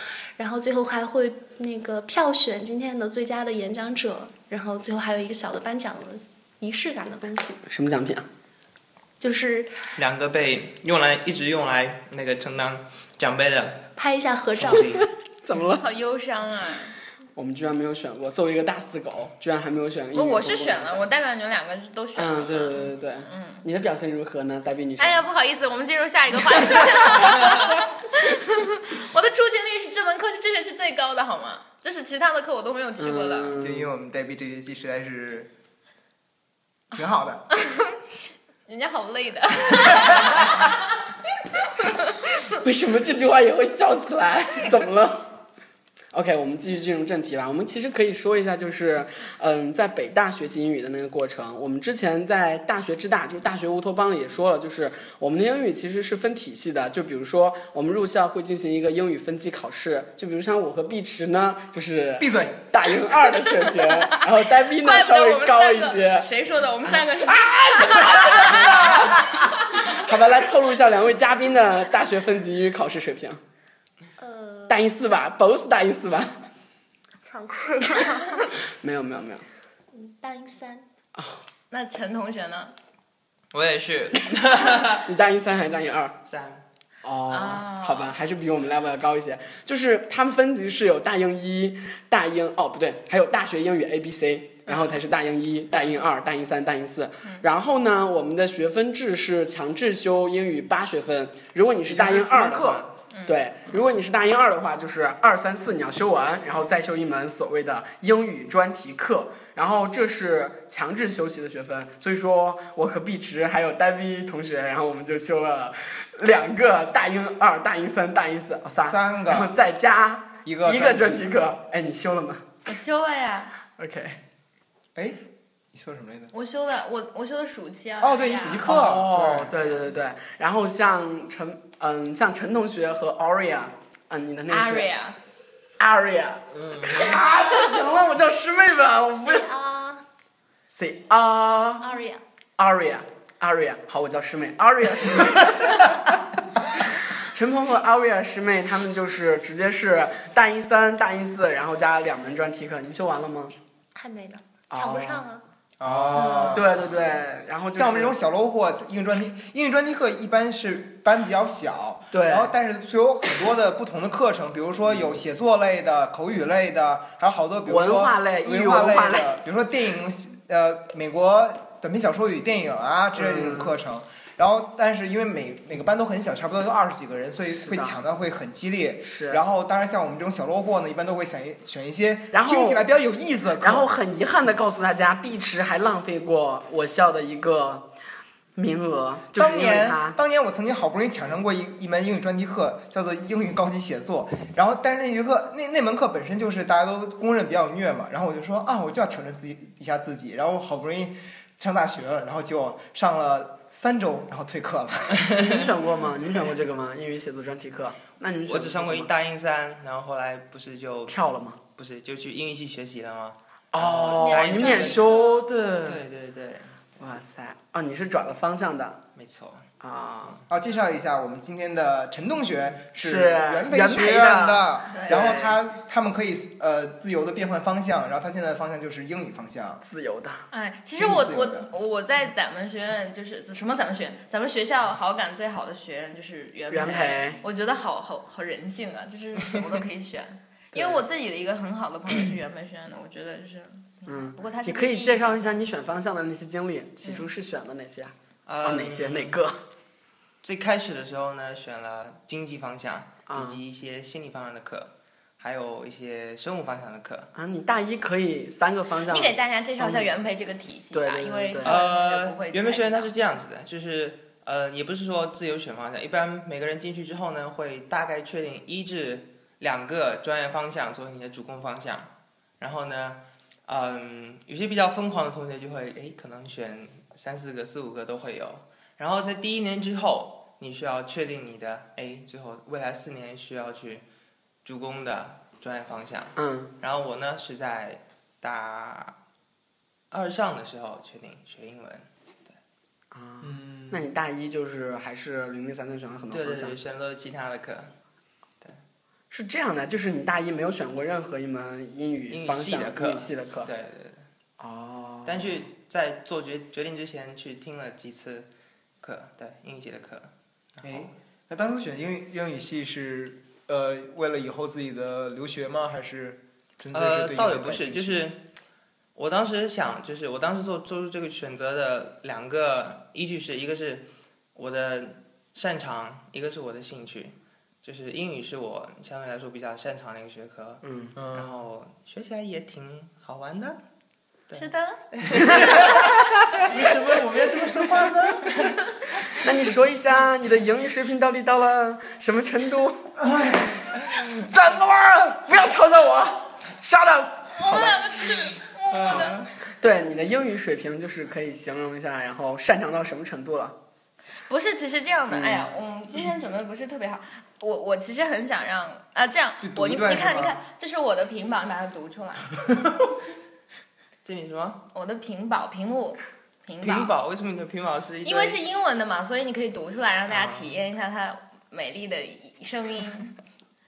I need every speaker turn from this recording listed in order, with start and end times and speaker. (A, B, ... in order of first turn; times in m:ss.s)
0:00.4-0:07.6 A
0:07.7-0:08.2 B
0:09.2-0:09.8 A
0:09.9-0:13.9 C
0:14.0-0:15.1 A
0:14.5-0:15.1 C
0:15.4-0:15.8 B
0:15.8-0:16.9 D
0:17.3-0:21.1 B
0:20.1-0:23.7 D
0:22.2-0:25.2 B
0:25.0-0:33.5 D
0:33.0-0:33.9 B
0:33.6-0:35.5 E
0:36.9-0:37.4 E
0:37.5-0:38.0 D
0:38.7-0:41.0 D
0:41.6-0:42.0 D
0:42.6-0:45.4 B
0:46.1-1:06.3 B
1:02.2-1:02.7 E
1:04.4-1:10.0 D
1:06.9-1:13.4 B
1:14.2-1:14.8 A
1:14.7-1:16.3 B
1:17.2-1:18.5 A
1:18.7-1:19.4 B
1:19.9-1:20.8 A
1:21.2-1:21.4 B
1:21.7-1:22.7 D
1:23.5-1:25.1 C
1:25.0-1:26.1 B
1:26.2-1:26.6 C
1:27.0-2:02.4 B
1:27.3-1:28.1 D
1:41.9-1:42.9 E
1:43.1-1:43.4 D
1:58.8-1:59.5 E
2:00.4-2:01.4 E
2:02.6-2:03.5 D
2:03.8-2:04.2 B
2:05.7-2:06.3 E
2:06.3-2:08.7 D
2:08.0-2:09.5 E
2:08.6-2:14.9 B
2:14.5-2:15.2 D
2:15.8-2:19.5 B
2:16.6-2:17.1 C
2:19.2-2:20.0 A
2:20.7-2:21.9 B
2:21.8-2:22.2 A
2:22.6-2:33.5 B
2:33.9-2:35.4 A
2:34.7-2:35.2 B
2:35.8-2:37.0 E
2:35.8-2:38.2 B
2:37.7-3:03.9 E
2:42.1-2:42.5 B
2:47.7-2:49.3 B
2:53.2-2:53.7 B
2:57.5-2:58.0 B
2:59.0-2:59.4 B
3:02.3-3:02.8 B
3:03.6-3:07.9 B
3:08.6-3:10.2 B
3:09.3-3:25.3 E
3:25.2-3:25.5 C
3:25.3-3:29.1 B
3:28.4-3:31.2 C
3:31.1-3:31.6 B
3:31.8-3:35.0 C
3:33.7-3:36.0 B
3:34.2-3:35.4 A
3:34.3-3:35.0 D
3:35.8-3:36.8 C
3:37.0-3:39.0 B
3:39.2-3:39.6 C
3:39.8-3:40.4 B
3:40.5-3:49.8 E
3:43.0-3:45.6 B
3:44.9-3:45.3 D
3:49.8-3:50.5 B
3:50.5-4:05.5 D
3:50.9-3:51.7 E
3:56.7-3:57.4 B
4:00.7-4:01.0 B
4:04.1-4:09.6 B
4:08.4-4:09.4 C
4:10.4-4:17.3 C
4:13.3-4:13.6 B
4:17.3-4:20.1 B
4:19.1-4:23.1 D
4:20.9-4:21.8 B
4:21.6-4:44.0 C
4:44.6-4:49.2 C
4:46.4-4:46.7 B
4:50.1-4:52.6 C
4:53.1-4:56.8 B
4:53.4-4:54.1 E
4:56.3-4:57.9 C
4:59.3-5:03.7 B
5:02.3-5:04.2 C
5:04.6-5:05.6 B
5:05.2-5:08.5 C
5:09.0-5:11.1 C
5:10.8-5:18.2 E
5:16.9-5:18.4 C
5:19.1-5:33.8 C
5:30.8-5:31.1 B
5:31.1-5:31.5 E
5:34.5-5:36.5 C
5:34.5-5:35.0 D
5:35.4-5:36.1 E
5:36.6-5:38.7 E
5:39.4-5:43.2 B
5:43.9-5:48.6 B
5:47.5-5:49.4 D
5:48.9-5:49.4 E
5:49.8-5:53.8 B
5:54.5-6:02.5 D
5:55.3-5:55.7 B
5:59.6-6:00.6 E
6:04.2-6:04.8 C
6:04.9-6:07.1 D
6:06.8-6:08.6 C
6:08.2-6:13.4 D
6:10.3-6:10.7 C